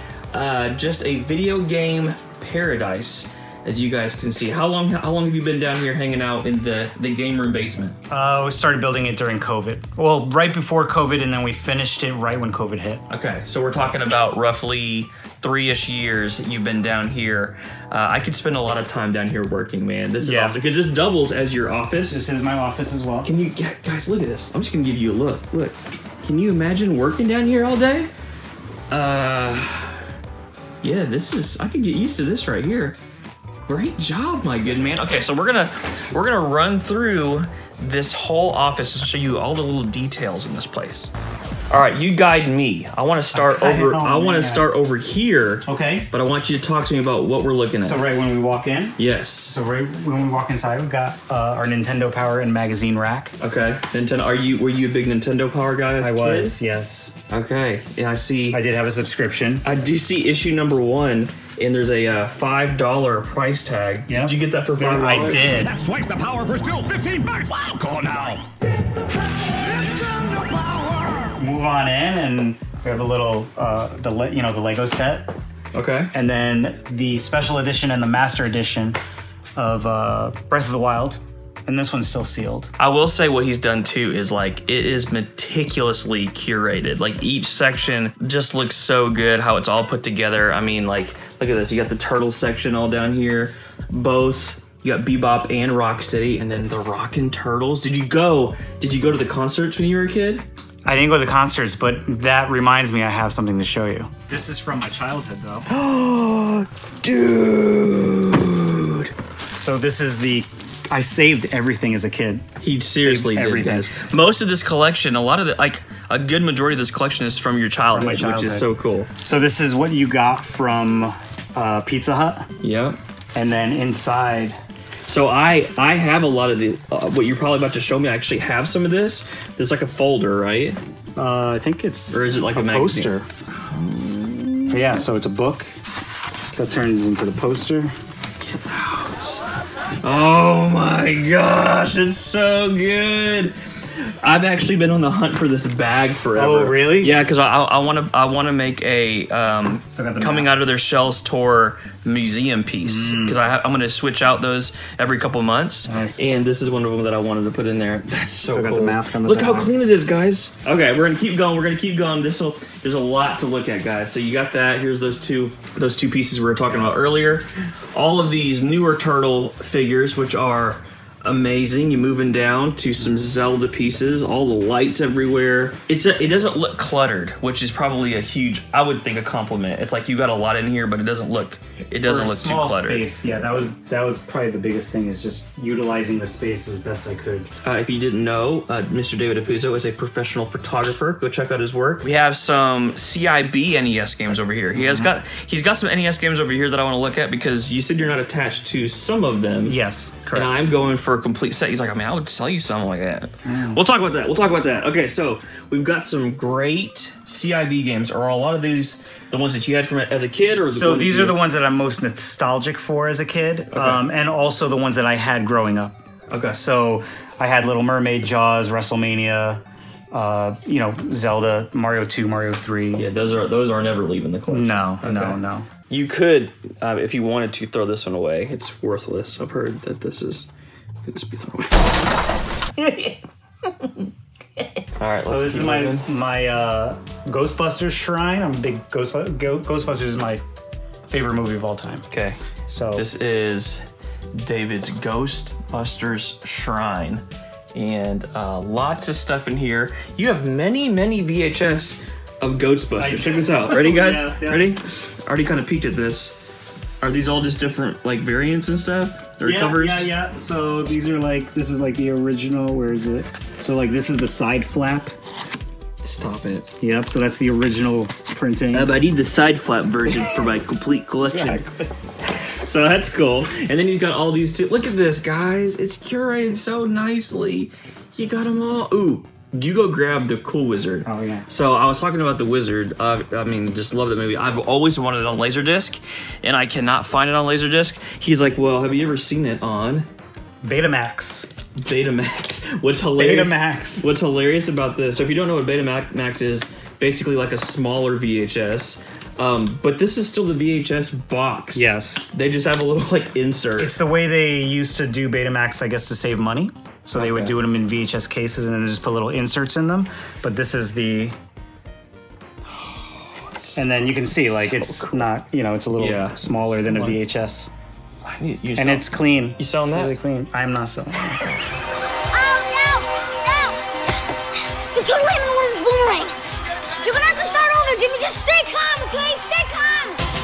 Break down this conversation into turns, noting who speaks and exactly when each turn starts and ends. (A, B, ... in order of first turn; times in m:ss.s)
0:00.3-0:08.0 A
0:08.1-0:13.0 B
0:13.1-0:22.3 A
0:20.2-0:20.6 B
0:22.1-0:23.3 B
0:23.2-0:28.1 A
0:28.9-0:30.0 A
0:30.8-0:33.0 A
0:33.7-0:41.1 A
0:41.7-0:48.0 A
0:43.3-0:44.7 B
0:45.7-0:46.1 B
0:47.8-0:53.4 B
0:49.0-0:49.6 A
0:53.4-0:56.6 A
0:56.0-0:57.1 B
0:57.3-0:58.6 A
0:58.5-0:59.7 B
0:59.6-1:05.7 A
1:04.1-1:05.8 B
1:05.9-1:08.4 C
1:07.5-1:07.9 D
1:10.1-1:10.7 D
1:11.2-1:15.3 B
1:15.7-1:16.1 A
1:16.1-1:19.0 B
1:19.6-1:22.7 B
1:22.8-1:40.4 A
1:40.8-1:45.7 B
1:45.7-1:49.1 A
1:49.5-1:53.9 B
1:52.6-1:59.1 A
1:57.9-1:58.7 B
1:59.2-2:02.5 B
2:02.6-2:03.0 A
2:03.3-2:04.6 B
2:05.1-2:10.8 A
2:11.2-2:13.3 B
2:12.1-2:13.1 A
2:13.7-2:15.0 A
2:14.7-2:15.7 B
2:16.6-2:17.9 B
2:18.4-2:19.4 A
2:20.0-3:03.1 A
2:26.3-2:27.2 B
2:29.9-2:30.6 B
2:32.8-2:33.4 B
2:35.9-2:36.2 B
2:38.5-2:39.8 B
3:02.0-3:07.5 B
3:07.6-3:19.8 A
3:14.8-3:15.1 B
3:19.6-3:20.6 B
3:20.3-3:31.4 A
3:23.4-3:23.8 B
3:30.6-3:36.0 B
3:33.7-3:34.0 A
3:36.3-3:36.6 A
3:36.5-3:39.6 B
3:40.1-3:43.1 B
3:43.0-3:50.5 A
3:44.5-3:45.7 B
3:51.0-3:51.9 A
3:52.8-3:53.2 A
3:55.0-3:56.0 A
3:55.3-4:00.4 B
4:01.1-4:02.1 B
4:02.1-4:02.4 A
4:02.7-4:03.1 B
4:02.9-4:03.8 A
4:04.4-4:16.3 A
4:13.0-4:14.7 B
4:17.0-4:20.1 A
4:19.4-4:25.1 B
4:26.0-4:26.7 A
4:26.8-4:29.0 B
4:28.7-4:31.6 A
4:30.1-4:30.4 B
4:31.2-4:31.9 B
4:32.6-4:50.1 A
4:41.0-4:41.5 B
4:50.6-4:51.5 B
4:51.8-5:04.0 A
4:53.2-4:54.1 B
5:01.7-5:02.2 B
5:03.8-5:11.4 B
5:07.2-5:07.5 A
5:12.7-5:15.3 A
5:13.8-5:17.7 B
5:16.0-5:17.2 A
5:18.2-5:20.2 A
5:18.8-5:21.7 B
5:22.3-5:23.8 D
5:24.9-5:26.4 D
5:27.0-5:30.2 D